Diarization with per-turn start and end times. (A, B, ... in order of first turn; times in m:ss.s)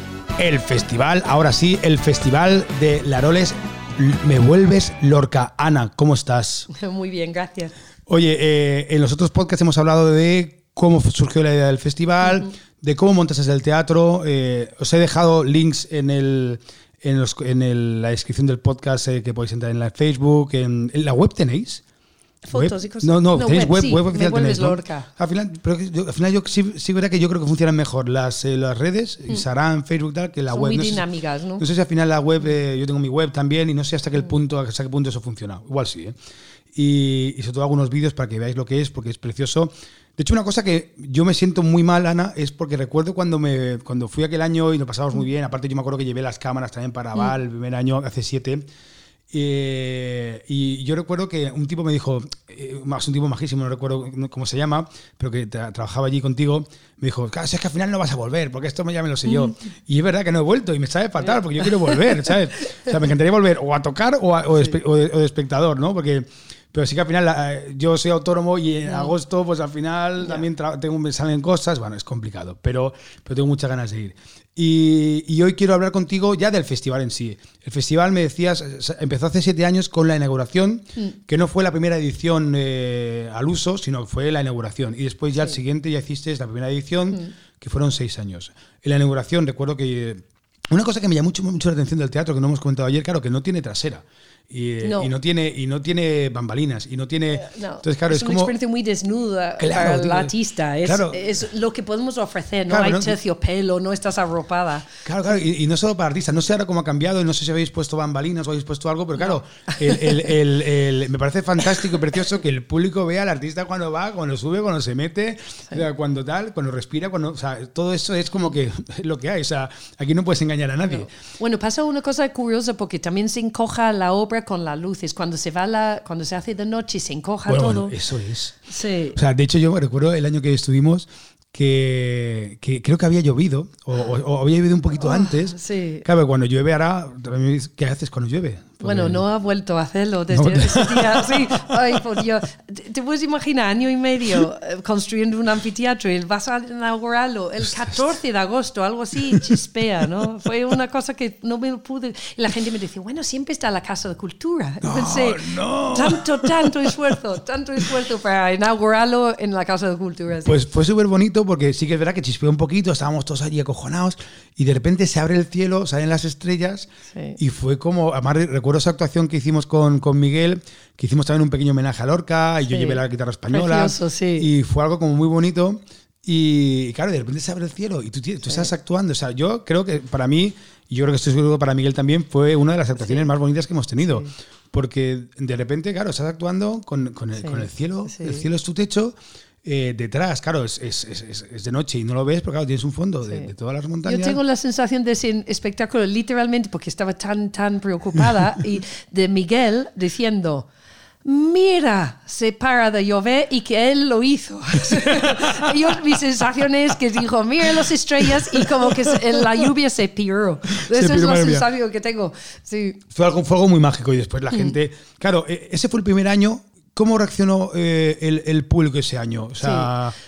0:00.4-0:06.7 A
0:06.7-0:07.7 B
0:08.1-0:21.8 A
0:22.4-0:25.1 B
0:22.5-0:31.0 A
0:30.5-0:31.6 B
0:31.6-0:36.2 A
0:36.7-0:48.6 A
0:49.3-1:38.5 A
0:59.3-0:59.5 B
1:01.6-1:01.9 B
1:08.9-1:09.1 B
1:34.8-1:35.1 B
1:37.3-1:45.0 B
1:39.6-1:40.3 A
1:40.8-1:41.3 A
1:42.7-1:43.2 A
1:45.0-2:01.1 A
1:49.2-1:50.3 B
2:00.9-2:07.9 B
2:07.5-2:08.6 A
2:08.7-2:09.2 B
2:09.2-2:19.2 A
2:15.0-2:16.0 B
2:18.8-2:40.6 B
2:20.3-2:21.7 A
2:34.8-2:37.0 A
2:40.4-3:14.4 A
2:47.1-2:47.4 B
2:52.7-2:54.5 B
3:03.0-3:03.2 B
3:07.4-3:08.4 B
3:14.0-3:20.7 B
3:21.2-3:33.0 B
3:28.4-3:29.7 A
3:30.8-3:31.6 A
3:33.1-3:40.1 A
3:39.6-3:39.9 B